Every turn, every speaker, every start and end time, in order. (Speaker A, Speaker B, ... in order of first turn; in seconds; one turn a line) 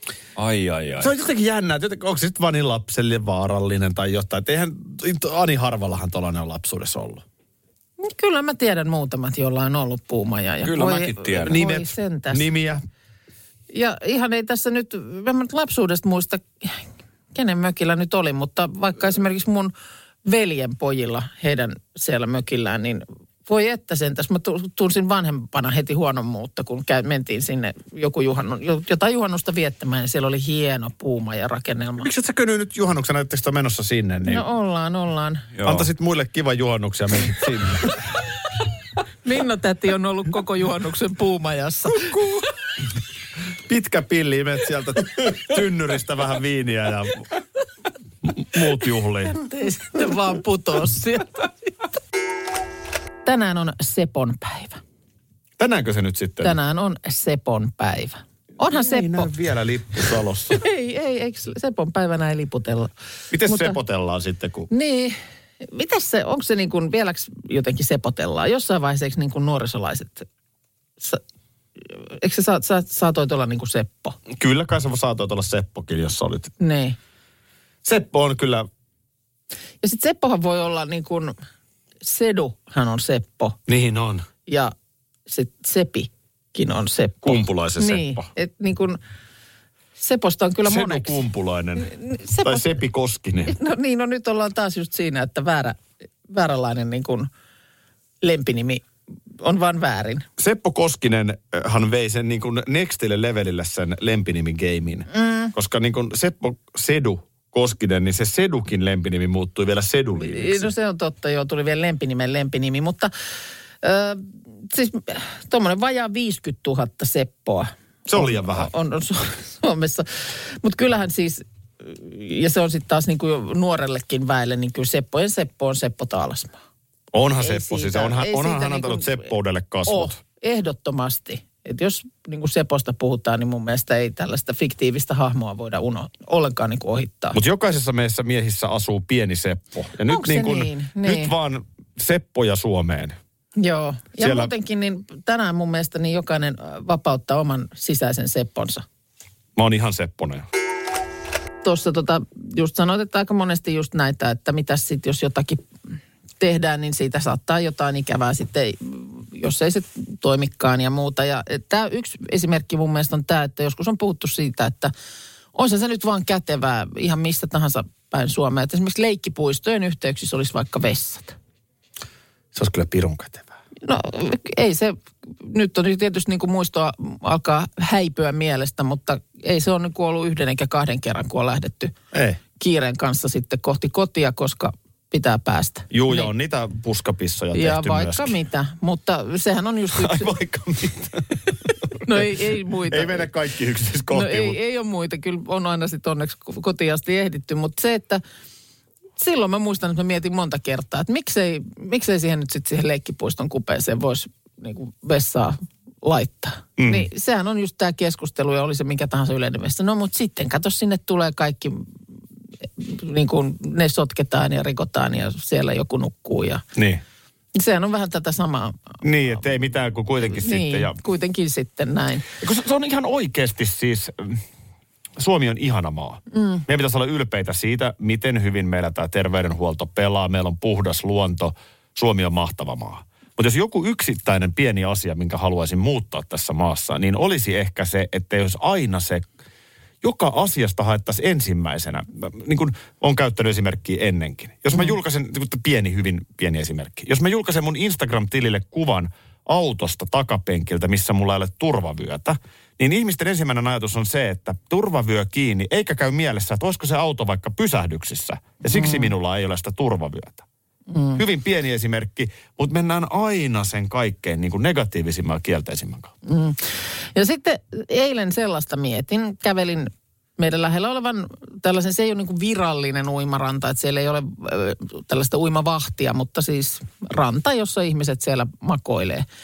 Speaker A: 0.3-1.1
Speaker B: 1.0-7.2
Speaker C: 8.0-12.4
Speaker A: 10.6-11.6
Speaker B: 11.4-12.8
Speaker C: 13.7-19.7
Speaker C: 20.2-32.1
Speaker B: 32.0-34.5
Speaker C: 34.2-35.5
Speaker A: 35.5-35.9
Speaker B: 35.6-37.9
Speaker C: 39.2-42.1
Speaker B: 41.9-42.5
Speaker B: 43.7-47.2
Speaker B: 48.3-49.3
Speaker C: 49.3-51.5
Speaker C: 53.2-54.8
Speaker B: 55.6-56.6
Speaker C: 56.4-59.3
Speaker B: 58.7-60.6
Speaker C: 60.5-62.9
Speaker B: 63.3-64.7
Speaker C: 63.4-63.8
Speaker C: 64.7-70.3
Speaker C: 71.9-74.2
Speaker B: 74.3-76.5
Speaker C: 76.6-77.0
Speaker B: 77.8-78.7
Speaker C: 79.8-81.3
Speaker C: 82.0-83.6
Speaker B: 83.7-84.2
Speaker C: 84.5-84.7
Speaker C: 85.3-89.0
Speaker B: 87.2-88.3
Speaker C: 90.0-91.2
Speaker B: 90.6-91.9
Speaker C: 91.8-92.7
Speaker B: 92.4-93.5
Speaker C: 93.5-97.3
Speaker C: 98.2-98.8
Speaker C: 99.4-100.3
Speaker B: 100.4-110.7
Speaker C: 105.1-105.5
Speaker C: 110.1-113.1
Speaker C: 113.8-126.6
Speaker B: 118.1-118.7
Speaker B: 127.1-130.2
Speaker C: 127.4-129.3
Speaker C: 129.9-137.4
Speaker B: 137.3-143.2
Speaker C: 140.1-141.3
Speaker C: 143.6-148.8
Speaker B: 144.2-144.5
Speaker B: 149.6-150.4
Speaker C: 151.6-155.6
Speaker C: 156.4-164.9
Speaker C: 165.5-171.3
Speaker B: 172.5-173.5
Speaker C: 173.8-181.9
Speaker B: 182.1-182.4
Speaker C: 182.6-186.3
Speaker B: 185.9-188.4
Speaker C: 187.5-190.3
Speaker B: 189.9-191.2
Speaker B: 191.8-192.3
Speaker C: 192.0-193.3
Speaker B: 192.9-194.6
Speaker C: 194.1-198.2
Speaker C: 199.2-211.9
Speaker B: 206.8-207.1
Speaker C: 212.8-216.6
Speaker B: 216.7-217.0
Speaker C: 217.5-219.0
Speaker B: 219.0-221.0
Speaker C: 220.2-222.2
Speaker B: 222.4-224.4
Speaker B: 225.2-239.3
Speaker C: 226.3-226.6
Speaker B: 240.0-260.4
Speaker C: 258.7-259.1
Speaker C: 260.9-261.2
Speaker B: 261.2-266.1
Speaker C: 266.2-279.2